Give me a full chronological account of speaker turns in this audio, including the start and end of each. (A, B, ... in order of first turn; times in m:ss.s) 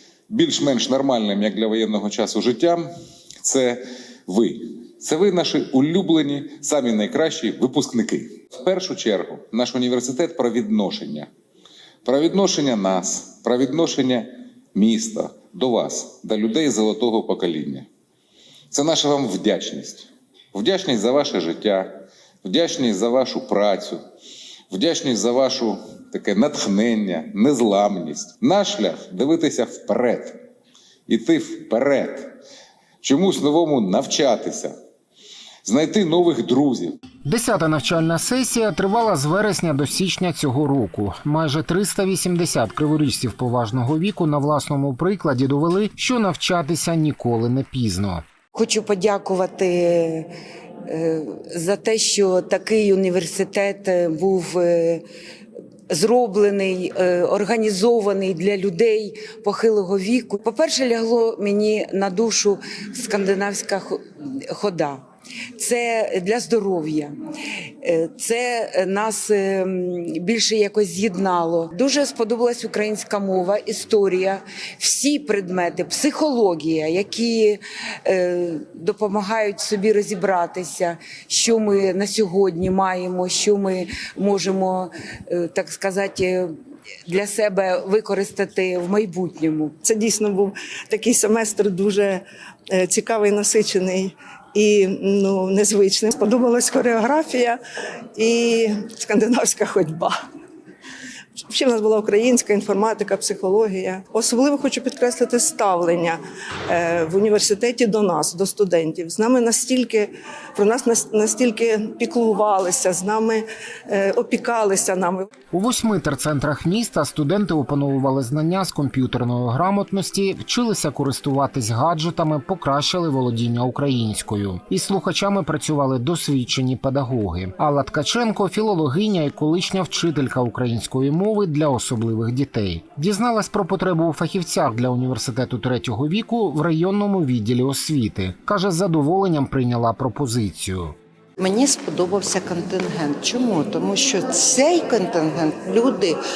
0:00.3-0:02.9 A
0:03.4-0:11.3 A
0:12.0-0:17.9 A
0:18.7-0:24.0 A
0:24.7-0:30.4 A
0:31.1-0:32.3 A
0:33.0-0:34.7 A
0:35.6-0:36.9 A
0:37.2-0:48.2 B
0:48.5-0:50.3 C
0:50.9-0:55.0 C
0:55.9-1:04.0 C
1:04.5-1:05.0 C
1:05.6-1:07.1 C
1:07.8-1:26.5 C
1:27.1-1:29.7 C
1:29.8-1:37.6 D
1:38.1-1:40.2 D
1:41.3-1:55.3 D
1:55.5-2:21.0 B
2:21.4-2:26.2 E